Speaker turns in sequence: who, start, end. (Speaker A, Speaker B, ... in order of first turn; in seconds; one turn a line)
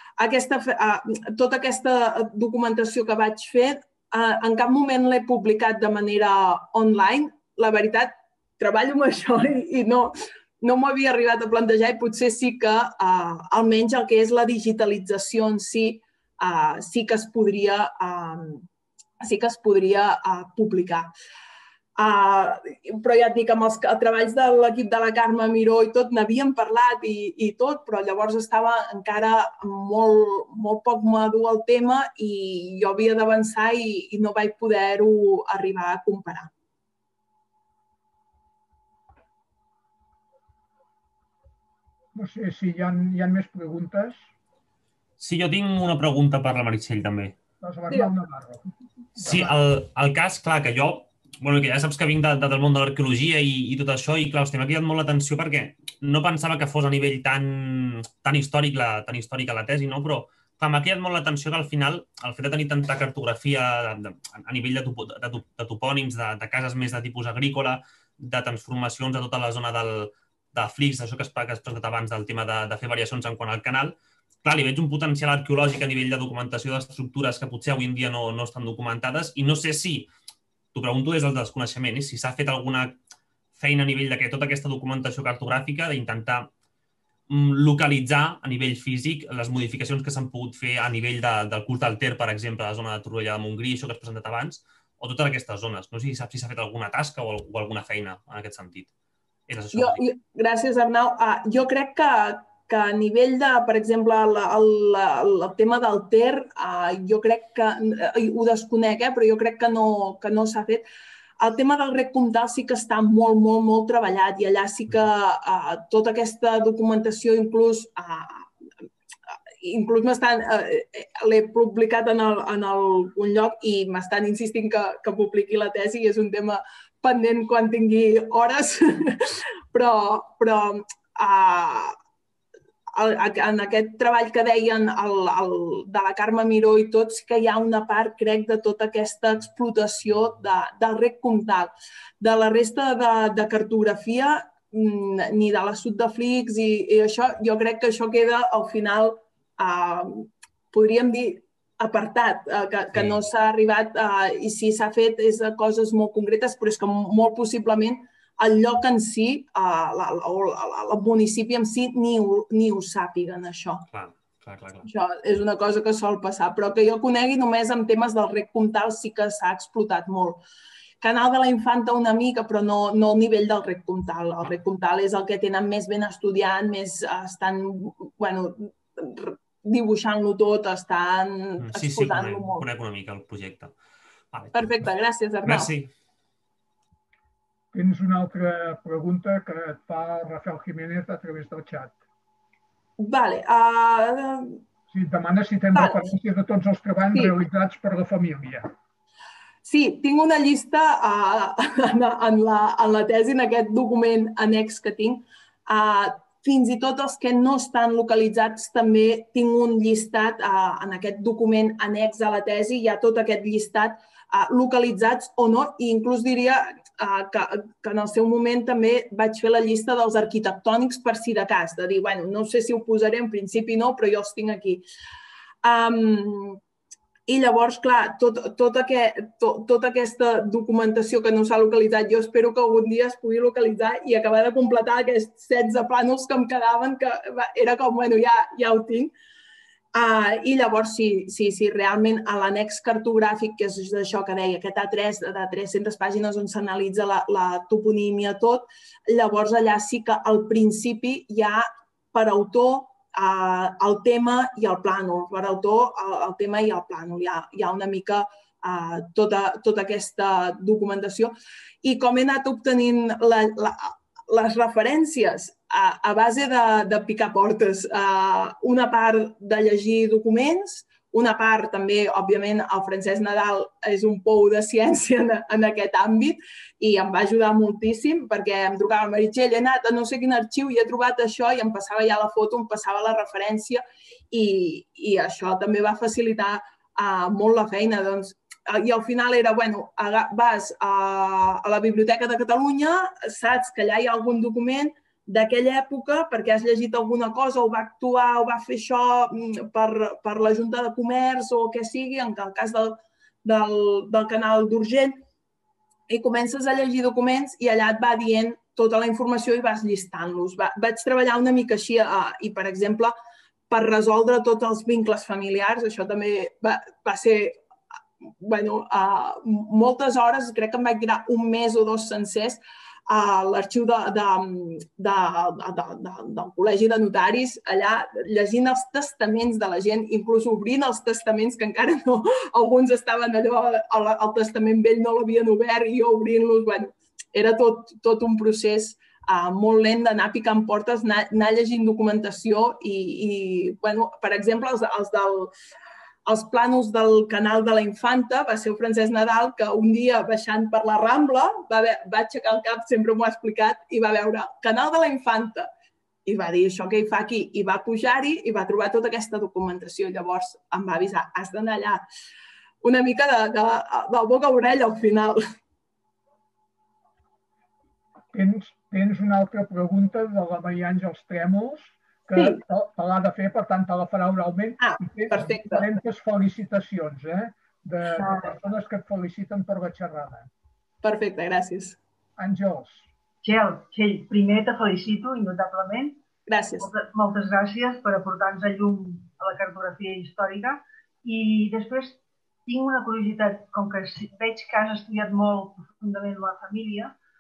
Speaker A: 0.2-18.7
Speaker A: 19.2-21.1
Speaker A: 22.0-36.5
Speaker B: 42.1-44.3
Speaker C: 45.2-47.4
Speaker B: 47.6-49.5
Speaker C: 49.2-80.1
Speaker C: 80.7-83.0
Speaker C: 83.6-86.5
Speaker C: 87.3-98.9
Speaker C: 99.5-100.1
Speaker A: 99.7-110.9
Speaker A: 111.4-118.5
Speaker A: 119.6-132.0
Speaker A: 132.9-163.8
Speaker C: 163.9-164.9
Speaker A: 164.8-170.4
Speaker A: 171.0-182.7
Speaker C: 181.6-183.8
Speaker C: 184.3-184.9
Speaker A: 184.5-185.7
Speaker C: 185.4-185.9
Speaker B: 187.7-192.0
Speaker A: 193.0-194.6
Speaker B: 194.9-198.7
Speaker A: 195.8-196.1
Speaker A: 199.6-224.9
Speaker A: 225.6-226.6
Speaker A: 227.3-239.1
Speaker A: 239.9-305.2
Speaker A: 306.1-313.1
Speaker A: 313.7-317.6
Speaker A: 318.2-345.5
Speaker A: 346.3-355.7
Speaker A: 356.3-362.0
Speaker A: 362.8-365.4
Speaker B: 368.3-380.5
Speaker A: 372.3-372.6
Speaker A: 374.8-375.9
Speaker A: 381.0-382.0
Speaker B: 382.4-383.1
Speaker D: 383.4-386.2
Speaker A: 386.5-386.9
Speaker D: 386.8-397.1